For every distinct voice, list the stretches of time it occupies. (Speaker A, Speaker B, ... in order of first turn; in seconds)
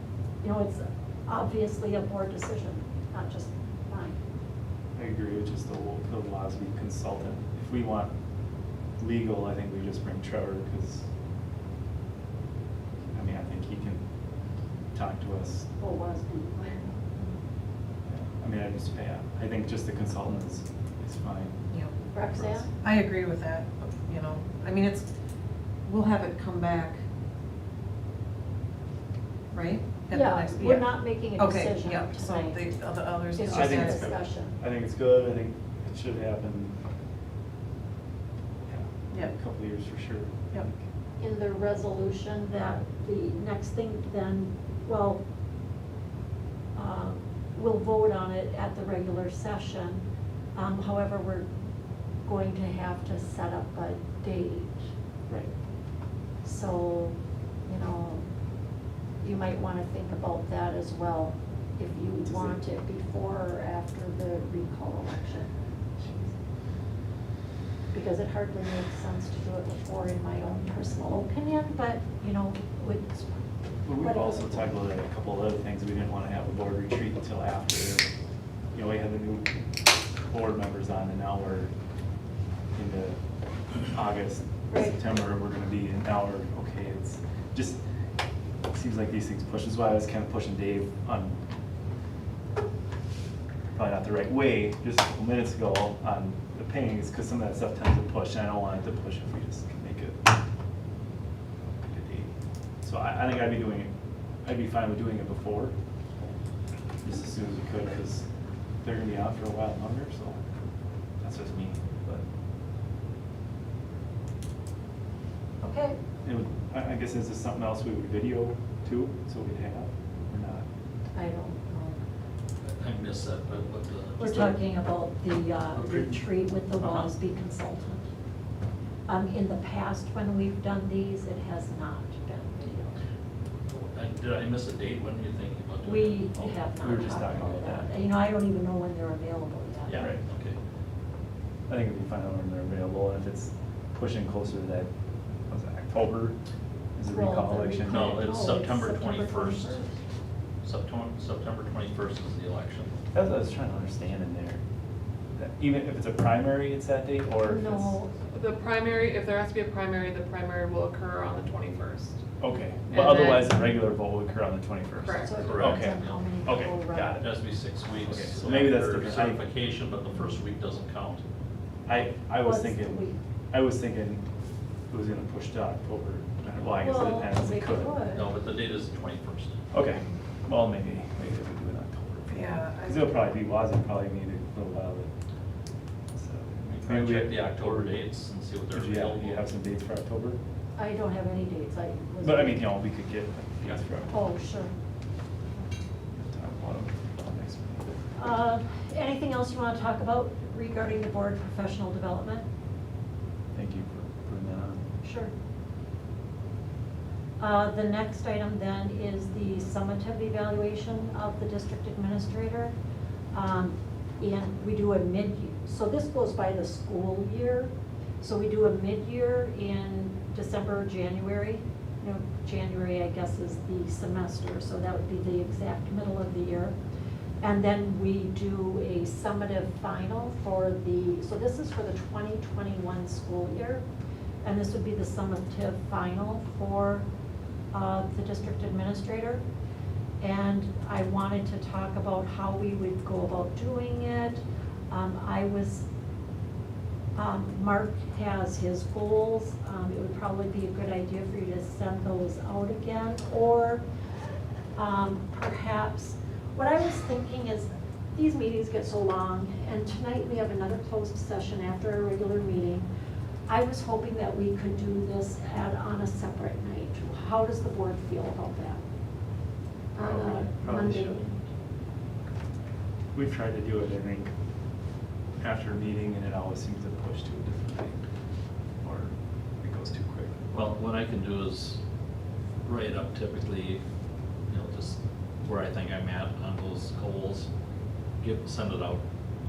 Speaker A: 0.4-4.2, 15.8-17.2, 22.1-22.7, 30.1-32.6, 33.4-34.6, 41.2-45.2, 46.8-50.0, 50.5-51.5, 52.2-54.9, 56.4-58.3, 59.2-65.5, 66.0-66.3, 67.9-73.3, 74.0-74.7, 84.7-85.0, 115.6-116.0, 121.2-122.0, 124.2-128.1, 129.1-133.0, 135.8-140.1, 147.1-150.0, 157.4-158.1, 165.2-167.2, 172.4-173.2, 176.8-178.3, 190.8-192.7, 194.1-194.7, 198.2-202.5, 205.0-205.3, 207.4-212.8, 213.3-226.8, 227.4-233.8, 234.4-237.1, 237.7-239.4, 240.2-245.9, 247.2-253.8, 254.8-262.9, 263.5-268.8, 269.9-271.4
Speaker B: 5.0-8.1, 9.0-11.1, 13.1-14.0, 14.9-15.7, 18.1-21.6, 22.2-22.6, 33.5-36.8, 38.7-40.7, 62.2-62.6, 73.8-78.1, 78.7-79.5, 80.3-81.7, 82.8-83.2, 83.8-87.8, 88.7-91.4, 93.8-100.3, 101.7-102.3, 102.8-103.9, 104.4-105.7, 107.0-108.3, 108.8-110.4, 111.2-112.2, 116.2-120.7, 126.8-127.1, 136.8-137.9, 141.7-144.9, 145.5-146.4, 147.0-148.3, 153.1-154.6, 155.3-157.9, 162.4-167.3, 168.0-169.4, 171.9-174.2, 174.9-178.0, 179.7-185.1, 186.2-188.0, 188.7-190.4, 192.2-194.1, 196.2-197.9, 203.5-204.8, 270.0-271.3, 273.1-274.3, 275.4-278.0, 278.8-280.4
Speaker C: 22.8-25.1, 25.9-27.0, 29.5-34.0, 182.3-183.1
Speaker D: 122.6-124.6, 133.7-136.6, 139.9-140.6, 147.8-149.8, 150.6-153.0, 165.3-166.3, 167.2-171.2, 178.2-179.6, 186.7-189.5, 280.5-281.8, 282.6-283.8, 284.5-287.5, 288.2-289.0
Speaker E: 158.3-162.2, 162.9-163.5, 165.0-165.3